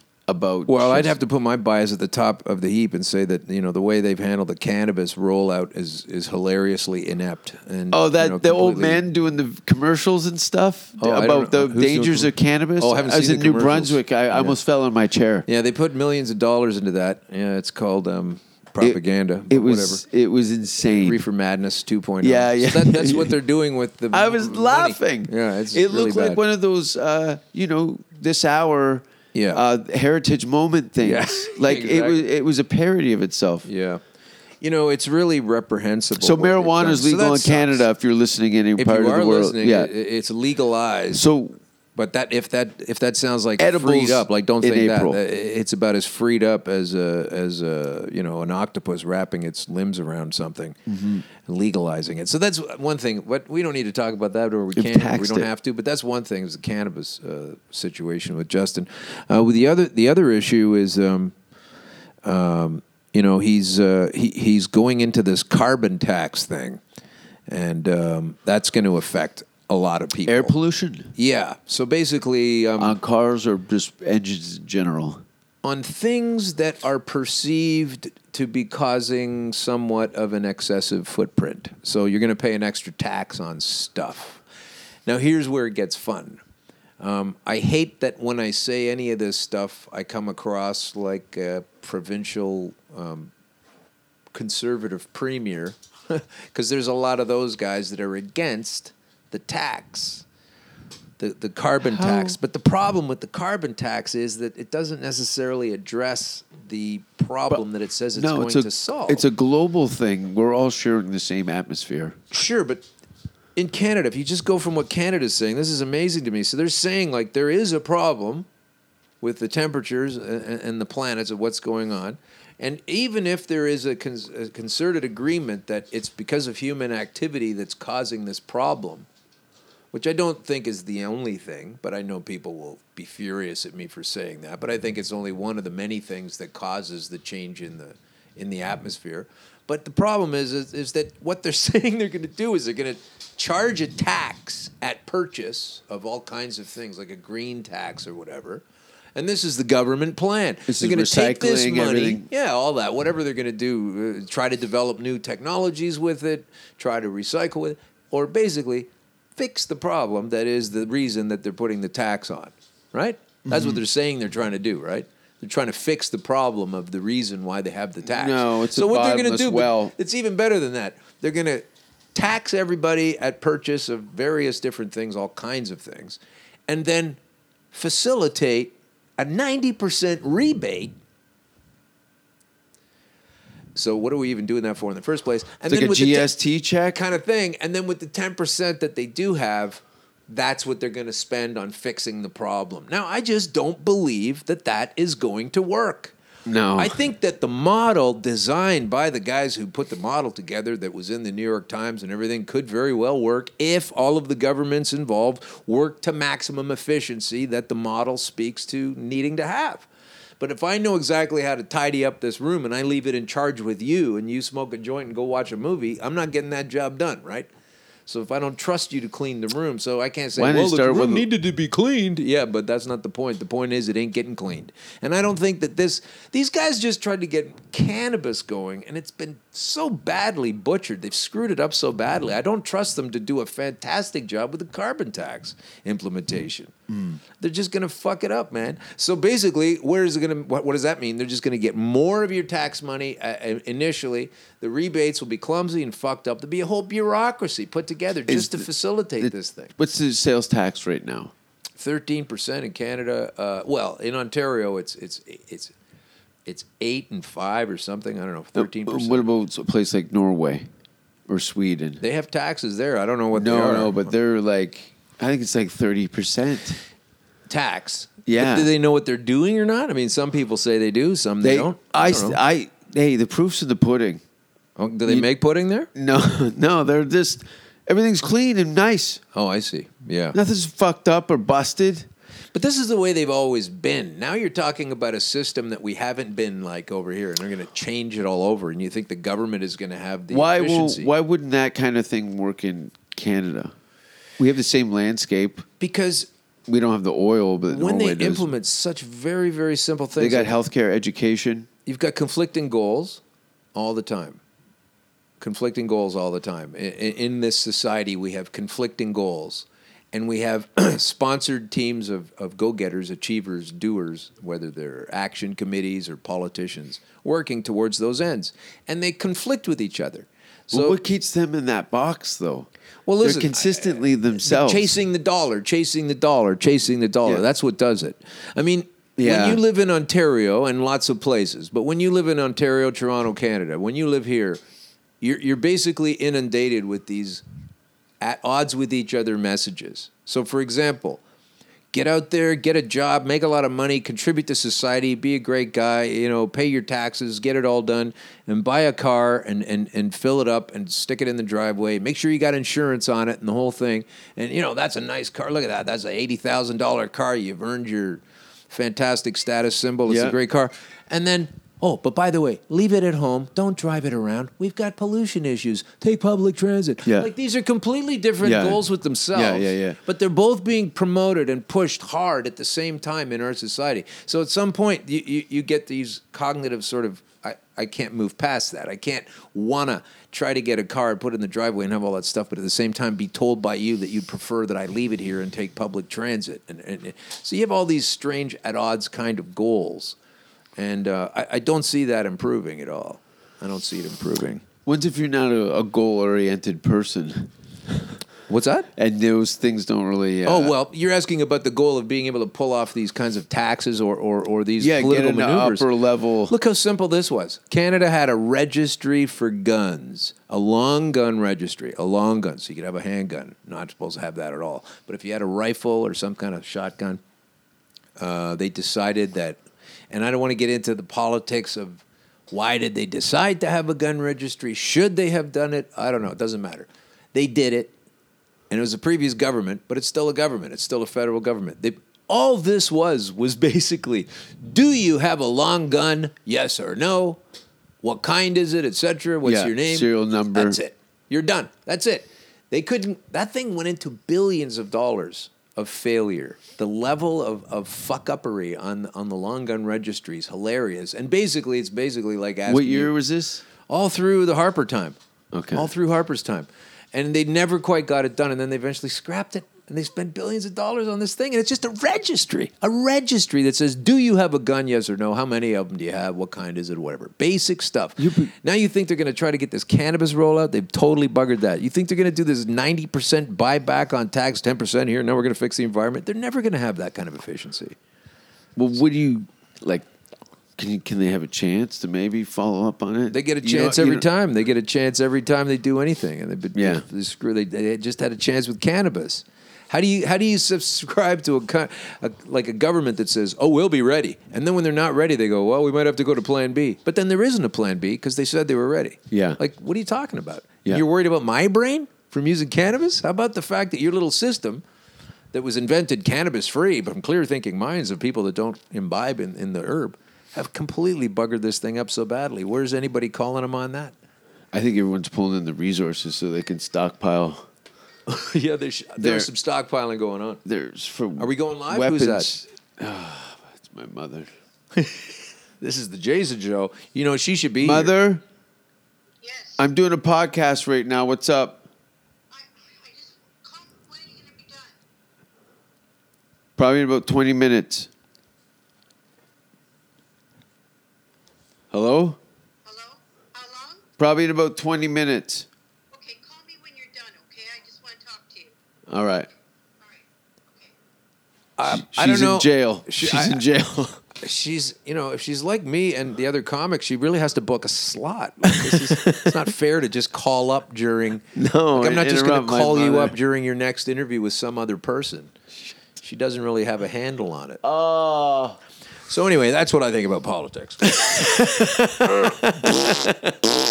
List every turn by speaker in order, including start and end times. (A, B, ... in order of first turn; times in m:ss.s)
0:00.3-0:01.1 A
0:00.7-0:09.0 B
0:07.9-0:15.4 A
0:11.0-0:14.6 B
0:15.5-0:20.0 B
0:18.8-0:21.2 A
0:20.9-0:26.4 B
0:22.2-0:23.4 A
0:24.1-0:33.7 A
0:29.3-0:29.6 B
0:31.0-0:32.2 B
0:33.6-0:34.0 B
0:34.6-0:37.8 B
0:36.2-0:39.9 A
0:38.8-0:41.2 B
0:41.1-0:41.6 A
0:42.0-1:01.3 B
0:43.6-0:45.2 A
0:50.9-0:51.2 A
0:54.7-0:55.5 A
1:02.2-1:06.8 B
1:07.5-1:10.5 B
1:10.2-1:11.1 A
1:11.1-1:13.0 B
1:12.8-1:15.2 A
1:15.6-1:24.4 B
1:25.0-1:26.4 B
1:27.0-1:33.3 B
1:34.3-1:40.2 B
1:41.2-1:49.2 B
1:41.8-1:42.4 A
1:48.1-1:52.2 A
1:52.3-1:52.8 B
1:53.5-1:58.5 B
1:59.2-2:09.1 B
2:09.9-2:28.6 B
2:29.1-2:57.2 B
2:30.7-2:32.3 A
2:43.5-2:43.8 A
2:48.0-2:49.9 A
2:57.7-3:00.9 B
3:03.7-3:06.3 B
3:05.7-3:07.0 A
3:06.8-3:16.1 B
3:16.4-3:17.0 A
3:16.8-3:29.9 B
3:30.4-3:37.5 B
3:38.1-3:56.7 B
3:40.4-3:41.2 A
3:56.9-3:57.2 A
3:57.4-4:09.7 B
4:08.3-4:08.7 A
4:09.2-4:11.3 A
4:11.8-4:15.7 B
4:16.4-4:19.3 B
4:18.5-4:20.7 A
4:21.3-4:22.0 A
4:22.0-4:24.0 B
4:23.3-4:26.8 A
4:27.5-4:32.4 B
4:28.2-4:28.7 A
4:31.4-4:34.2 A
4:34.8-4:35.9 B
4:35.9-4:39.2 A
4:39.3-4:40.4 B
4:40.3-4:42.1 A
4:42.5-4:51.1 B
4:50.3-4:53.7 A
4:54.4-4:55.7 A
4:55.8-4:56.3 B
4:56.7-4:58.5 A
4:57.7-5:00.6 B
5:00.2-5:01.7 A
5:01.8-5:03.2 B
5:03.7-5:04.4 B
5:05.4-5:21.0 B
5:20.7-5:22.7 A
5:23.0-5:34.6 B
5:23.2-5:25.0 A
5:29.2-5:29.6 A
5:35.2-5:37.4 B
5:38.2-5:41.2 B
5:41.9-6:30.2 B
6:00.1-6:00.4 A
6:07.0-6:07.3 A
6:08.4-6:10.0 A
6:30.8-6:34.6 B
6:34.8-6:38.0 A
6:38.5-6:38.9 B
6:39.0-6:40.8 A
6:40.4-6:45.9 B
6:44.8-6:46.5 A
6:46.5-6:57.2 B
6:58.2-6:59.6 B
7:00.1-7:07.9 B
7:08.7-7:17.4 B
7:18.0-7:33.1 B
7:19.4-7:20.8 A
7:32.6-7:33.6 A
7:33.9-7:35.2 B
7:35.5-7:35.9 A
7:35.7-7:58.0 B
7:48.2-7:48.5 A
7:58.8-8:00.0 A
8:00.8-8:04.3 A
8:03.3-8:24.8 B
8:06.7-8:07.0 A
8:19.3-8:19.6 A
8:25.5-8:34.1 B
8:34.7-8:37.6 A
8:38.3-8:40.6 B
8:39.2-8:39.5 A
8:40.6-8:44.5 A
8:41.4-8:42.5 B
8:45.0-8:48.1 B
8:47.8-8:48.4 A
8:49.4-8:49.8 C
8:49.8-8:51.8 A
8:52.5-8:55.0 C
8:56.8-8:58.1 A
9:01.9-9:02.4 A
9:02.8-9:04.0 C
9:04.2-9:05.7 A
9:06.1-9:08.7 C
9:09.1-9:09.5 A
9:10.0-9:10.9 C
9:11.8-9:13.6 B
9:11.8-9:14.2 A
9:14.4-9:25.5 B
9:18.7-9:19.6 A
9:21.5-9:23.4 A
9:26.2-9:27.8 B
9:27.8-9:28.8 A
9:29.3-9:33.4 B
9:31.3-9:33.3 A